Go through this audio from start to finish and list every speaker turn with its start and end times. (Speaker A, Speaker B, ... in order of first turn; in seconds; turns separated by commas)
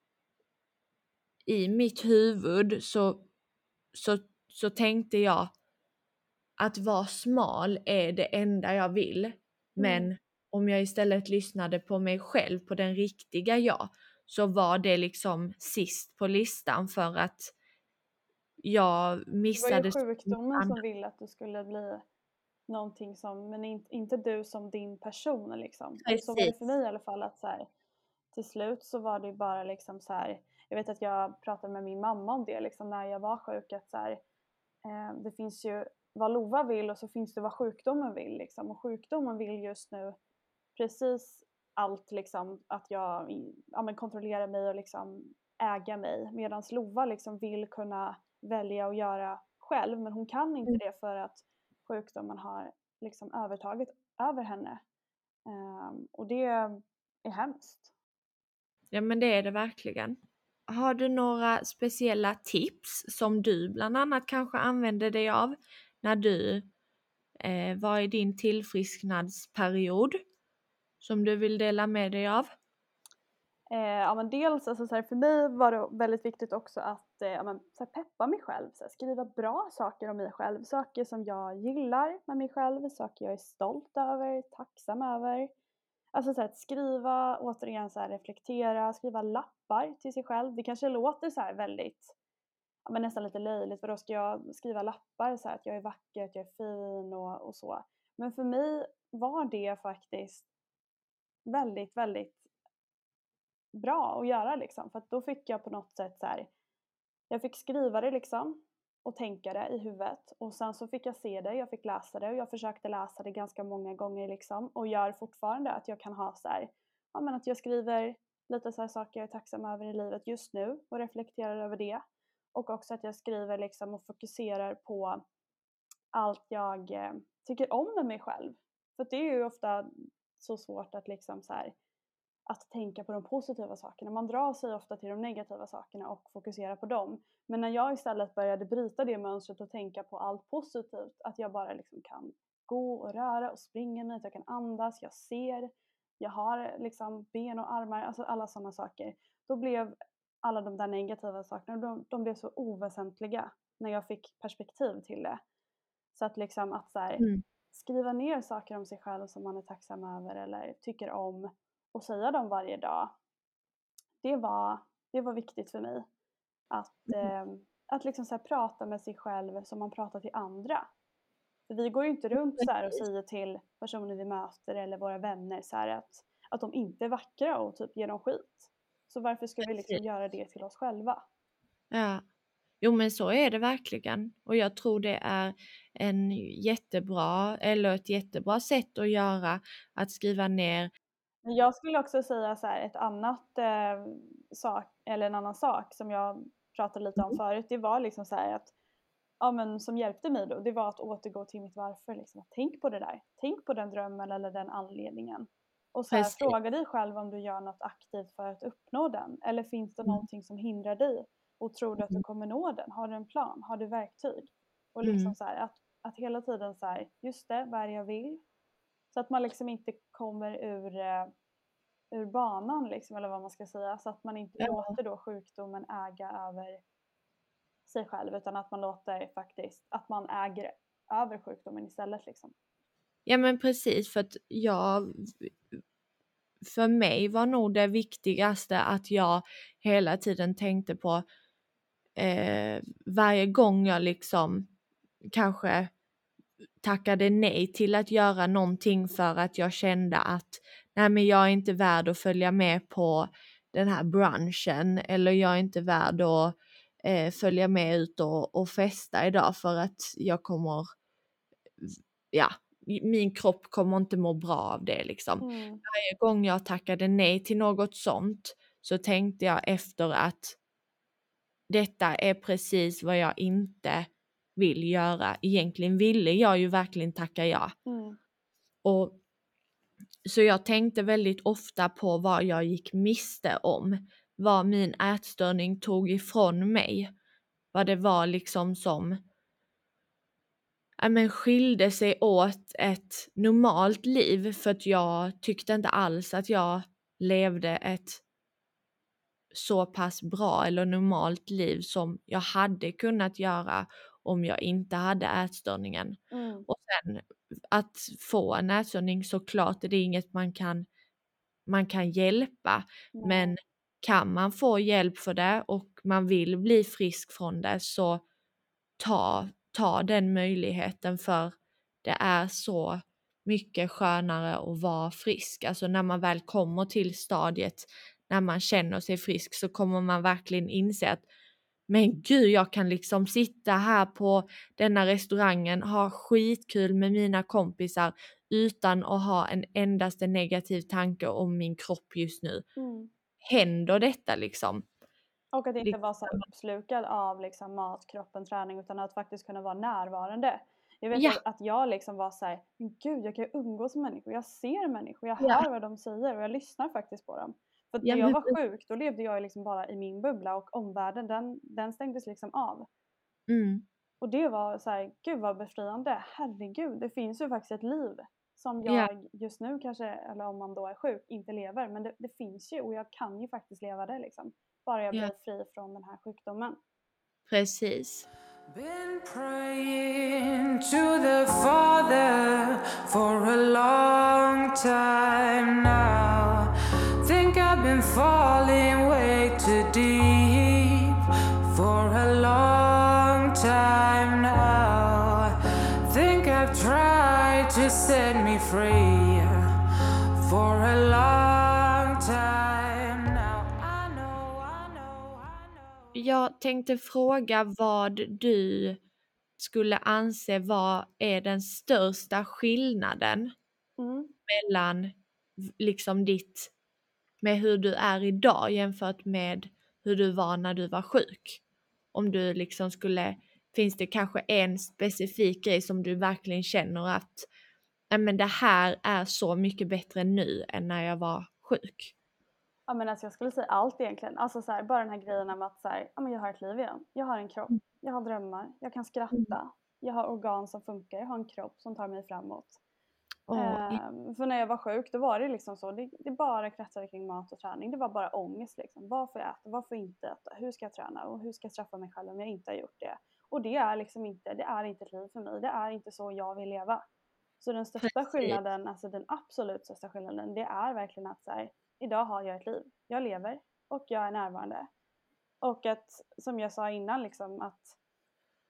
Speaker A: 1.4-3.2, Speaker A: 3.9-5.5, Speaker A: 6.6-17.5, Speaker B: 9.8-10.1, Speaker A: 18.6-20.8, Speaker B: 19.5-22.0, Speaker B: 22.7-27.7, Speaker A: 26.0-26.5, Speaker B: 28.3-34.2, Speaker B: 34.8-40.2, Speaker B: 40.8-54.8, Speaker B: 55.5-57.9, Speaker A: 58.9-66.7, Speaker A: 67.4-70.2, Speaker A: 71.0-72.5, Speaker B: 73.7-85.5, Speaker B: 86.1-92.1, Speaker B: 92.8-100.5, Speaker B: 101.5-102.5, Speaker B: 103.7-106.5, Speaker B: 107.3-122.0, Speaker B: 122.5-125.2, Speaker B: 126.1-131.7, Speaker B: 132.5-155.4, Speaker B: 156.1-163.1, Speaker B: 164.2-166.1, Speaker B: 166.7-170.9, Speaker B: 171.7-181.2, Speaker A: 179.7-180.0, Speaker A: 181.9-182.2, Speaker A: 182.8-190.9, Speaker B: 191.4-198.7, Speaker B: 199.4-218.4, Speaker A: 206.1-206.5, Speaker A: 215.0-215.3, Speaker B: 219.1-221.3, Speaker B: 222.1-226.8, Speaker A: 224.6-225.0, Speaker B: 227.9-232.5, Speaker A: 233.2-235.5, Speaker A: 236.6-241.2, Speaker A: 242.2-244.7, Speaker A: 245.3-245.9, Speaker A: 246.8-260.9, Speaker A: 261.8-270.6, Speaker B: 265.4-265.8, Speaker A: 271.7-277.7, Speaker B: 277.9-278.2, Speaker A: 278.8-279.2, Speaker A: 280.2-287.1, Speaker A: 287.7-289.2, Speaker A: 291.0-298.2, Speaker A: 299.5-310.9, Speaker B: 306.3-306.7, Speaker A: 311.7-318.2, Speaker B: 313.1-313.6, Speaker A: 319.0-331.2, Speaker A: 331.9-342.6, Speaker B: 342.8-343.1, Speaker A: 343.4-344.9, Speaker B: 345.5-362.9, Speaker A: 345.8-346.4, Speaker A: 351.1-351.4, Speaker A: 355.4-355.6, Speaker A: 358.0-358.6, Speaker A: 363.5-363.8, Speaker B: 364.2-376.8, Speaker A: 377.5-378.2, Speaker C: 378.7-386.7, Speaker C: 387.2-399.7, Speaker C: 400.4-405.9, Speaker A: 406.1-409.0, Speaker A: 409.6-413.5, Speaker B: 414.0-414.3, Speaker A: 414.5-416.7, Speaker A: 417.4-421.6, Speaker A: 422.1-427.5, Speaker A: 428.1-432.1, Speaker B: 432.9-442.8, Speaker A: 443.5-444.0, Speaker B: 443.5-457.0, Speaker B: 457.6-464.9, Speaker A: 458.0-458.6, Speaker B: 465.6-468.0